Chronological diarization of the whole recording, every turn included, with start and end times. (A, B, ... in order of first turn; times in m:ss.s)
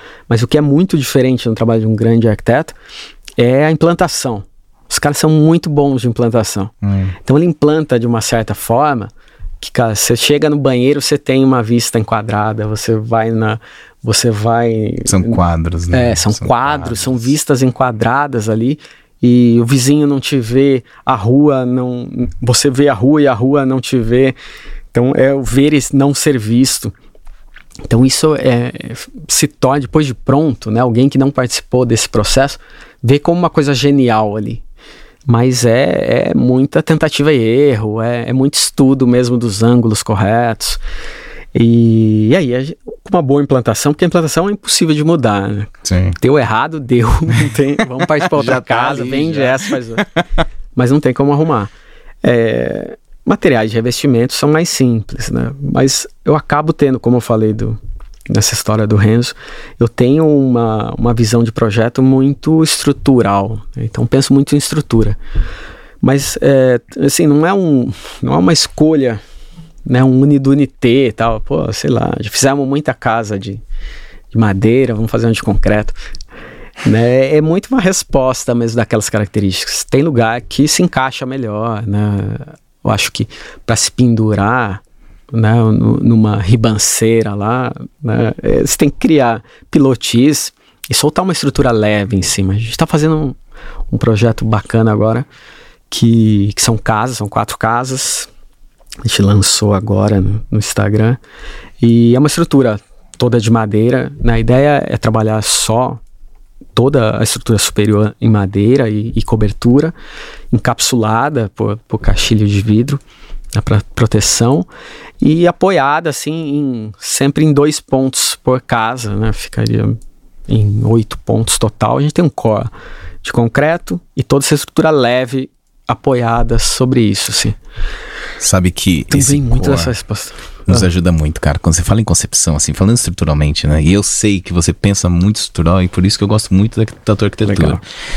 0:00.3-0:02.7 A
0:03.4-0:15.4 A
0:06.8-0:07.1 B
0:15.1-0:17.2 B
0:15.9-0:24.3 A
0:24.9-0:26.9 A
0:27.9-0:34.6 A
0:35.3-0:40.8 A
0:41.5-0:50.1 A
0:45.8-0:46.2 B
0:48.3-0:49.7 B
0:50.7-0:51.7 A
0:52.2-0:57.8 A
0:58.3-1:05.2 A
1:06.0-1:09.2 A
1:09.8-1:13.6 A
1:14.3-1:16.0 A
1:16.8-1:33.4 A
1:33.9-1:35.3 A
1:35.9-1:38.3 A
1:39.0-1:41.2 A
1:41.8-1:46.0 A
1:46.8-1:49.9 A
1:50.5-1:53.0 A
1:53.5-1:54.7 A
1:55.2-2:00.0 A
2:00.5-2:02.7 A
2:03.2-2:07.6 A
2:08.4-2:09.9 B
2:09.1-2:10.9 A
2:10.7-2:17.8 B
2:17.4-2:17.8 A